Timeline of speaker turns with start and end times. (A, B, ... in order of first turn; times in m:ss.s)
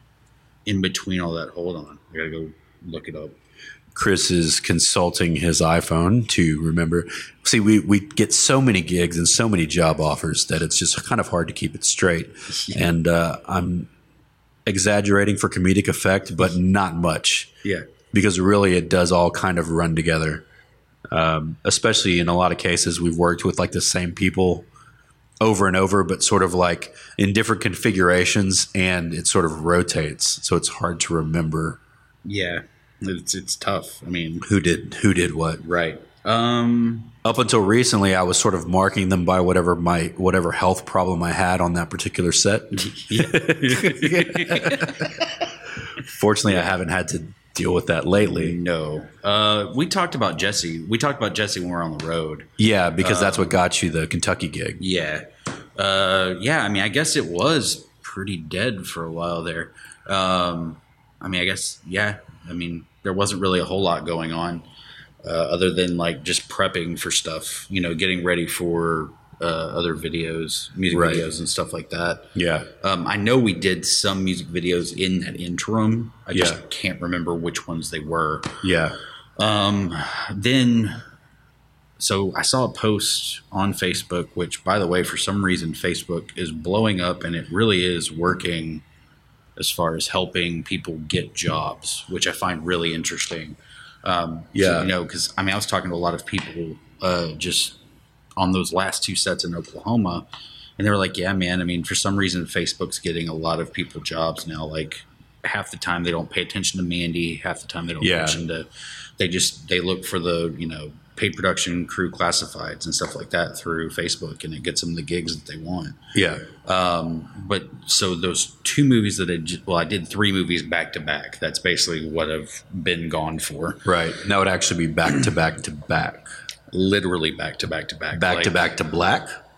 0:00.7-0:03.4 A
0:03.9-0:13.9 B
0:12.5-0:12.9 A
0:14.7-0:17.6 B
0:18.1-0:20.4 B
0:21.1-0:24.7 B
0:25.4-0:31.8 B
0:32.2-0:34.5 A
0:34.4-0:35.6 B
0:35.6-0:37.2 A
0:37.2-0:45.3 B
0:42.7-0:45.1 A
0:46.0-0:48.6 B
0:48.2-0:53.5 A
0:52.6-0:54.8 B
0:54.8-1:04.7 A
1:05.2-1:18.6 A
1:10.9-1:11.3 B
1:12.4-1:12.7 B
1:16.3-1:16.6 B
1:18.6-1:19.0 B
1:19.4-1:21.0 A
1:22.0-1:28.8 A
1:29.6-1:37.8 A
1:34.5-1:34.9 B
1:38.4-1:40.2 A
1:40.8-1:48.7 A
1:48.0-1:48.4 B
1:49.2-1:56.0 A
1:56.1-1:56.5 B
1:56.6-2:03.9 A
2:03.8-2:06.3 B
2:06.7-2:08.6 A
2:08.1-2:09.3 B